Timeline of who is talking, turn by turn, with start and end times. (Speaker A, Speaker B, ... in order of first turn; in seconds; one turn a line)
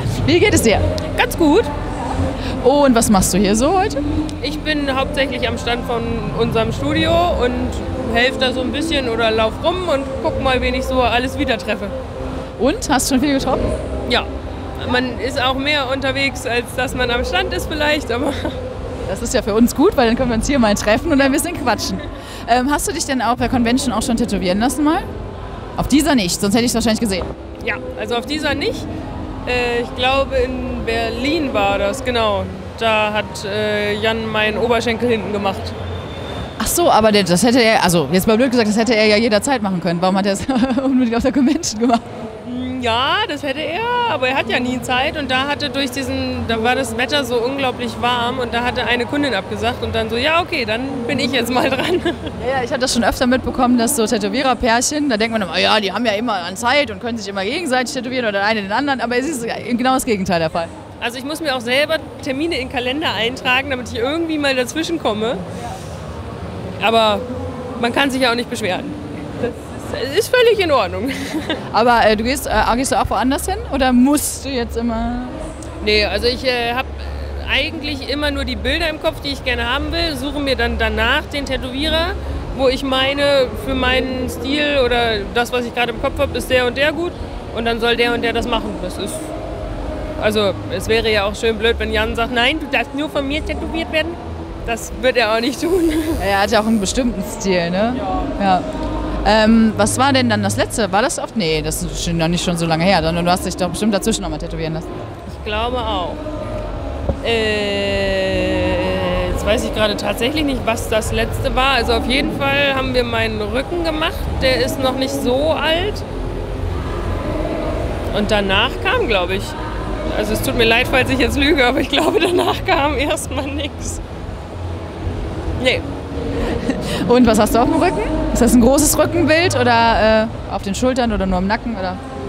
Speaker A: 0.2-0.8
Speaker B: 1.1-1.7
Speaker A: 2.6-4.0
Speaker B: 4.4-11.9
Speaker A: 12.6-13.7
Speaker B: 14.8-18.6
Speaker A: 19.1-25.1
Speaker A: 25.8-27.3
Speaker B: 27.6-28.9
Speaker B: 29.4-35.8
Speaker A: 36.6-42.0
Speaker B: 42.4-52.3
Speaker A: 52.4-60.7
Speaker B: 61.0-65.4
Speaker B: 66.8-67.2
Speaker B: 67.8-71.6
Speaker A: 71.7-75.4
Speaker B: 75.8-89.3
Speaker B: 90.2-96.2
Speaker A: 96.2-98.7
Speaker B: 97.9-98.3
Speaker A: 99.2-104.9
Speaker B: 105.3-106.2
Speaker B: 107.2-116.0
Speaker B: 118.1-119.5
Speaker B: 120.1-124.0
Speaker B: 125.6-125.8
Speaker A: 126.6-132.0